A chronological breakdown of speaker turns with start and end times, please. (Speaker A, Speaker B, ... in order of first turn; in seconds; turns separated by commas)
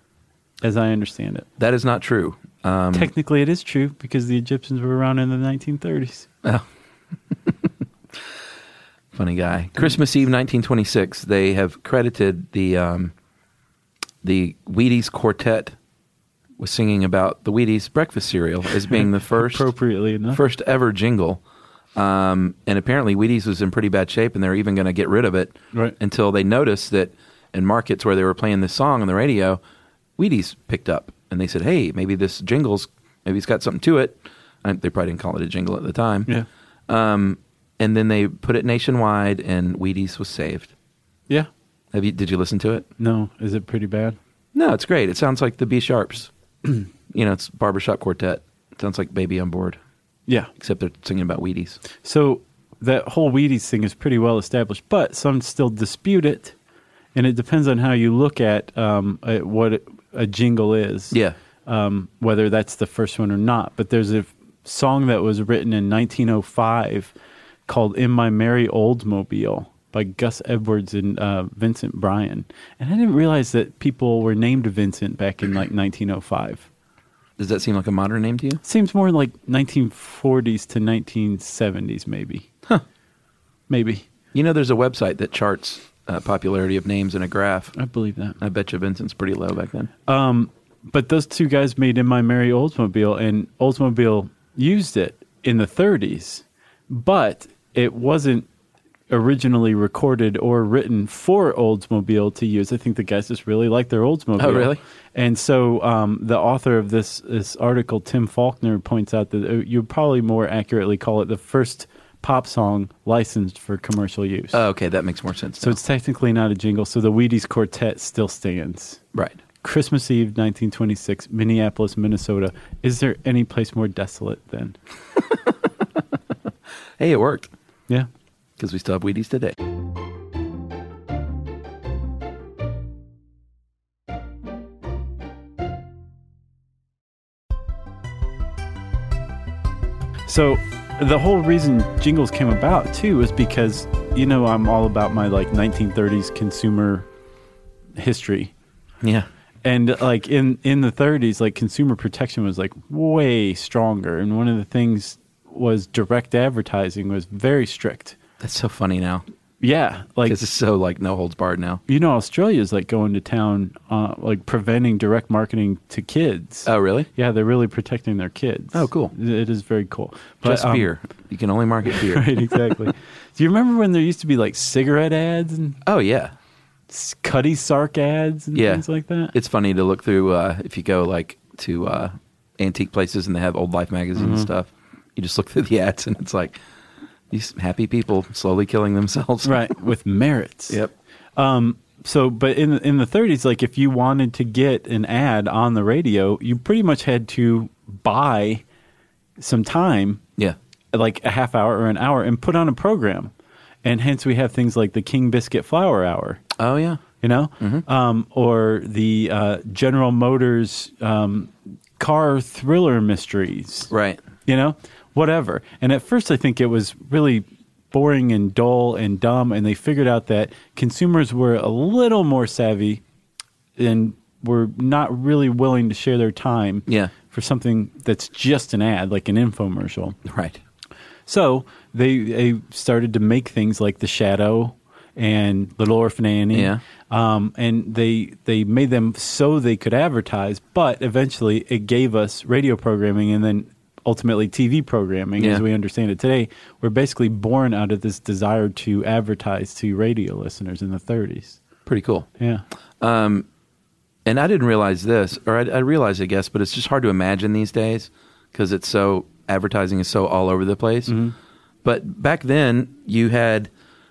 Speaker A: 0.6-1.5, Speaker B: 1.6-3.1, Speaker A: 2.9-6.3, Speaker B: 9.1-13.1, Speaker B: 14.2-15.8, Speaker B: 16.6-19.7, Speaker A: 19.3-20.4, Speaker B: 20.3-21.4, Speaker B: 21.9-29.6, Speaker B: 30.2-36.3, Speaker B: 36.9-40.7, Speaker B: 41.9-42.9, Speaker A: 43.0-44.2, Speaker B: 44.5-46.3, Speaker B: 47.1-49.8, Speaker B: 50.6-51.8, Speaker A: 52.0-56.5, Speaker A: 57.1-67.1, Speaker A: 67.7-76.7, Speaker B: 77.4-78.6, Speaker A: 78.6-82.5, Speaker A: 83.7-84.0, Speaker B: 84.3-87.8, Speaker A: 87.8-88.4, Speaker B: 88.4-89.9, Speaker A: 90.1-98.5, Speaker A: 99.1-114.6, Speaker B: 104.4-104.8, Speaker B: 114.5-115.8, Speaker A: 115.6-119.0, Speaker B: 119.1-119.4, Speaker A: 119.6-124.8, Speaker B: 127.0-127.5, Speaker B: 128.6-129.6, Speaker A: 140.3-147.1, Speaker A: 148.0-148.5, Speaker B: 149.0-149.3, Speaker A: 149.6-158.2, Speaker B: 158.4-159.2, Speaker A: 159.6-160.4, Speaker B: 160.2-161.8, Speaker A: 161.9-170.9, Speaker B: 166.7-167.1, Speaker B: 168.7-169.1, Speaker B: 170.4-172.7, Speaker A: 171.9-175.8, Speaker B: 175.8-176.3, Speaker A: 176.9-179.3, Speaker B: 178.5-186.6, Speaker A: 184.2-184.5, Speaker B: 187.3-189.7, Speaker A: 189.4-190.8, Speaker A: 191.4-198.6, Speaker A: 199.4-200.2, Speaker A: 200.9-203.3, Speaker A: 203.8-206.4, Speaker B: 206.6-207.0, Speaker A: 207.2-213.9, Speaker B: 213.9-214.2, Speaker A: 214.5-223.0, Speaker A: 223.8-230.2, Speaker B: 226.9-227.1, Speaker B: 230.2-230.6, Speaker A: 231.3-251.6, Speaker B: 236.5-236.8, Speaker B: 245.4-245.6, Speaker B: 251.8-252.3, Speaker B: 253.0-253.5, Speaker B: 254.2-261.1, Speaker A: 261.1-261.3, Speaker B: 261.8-263.7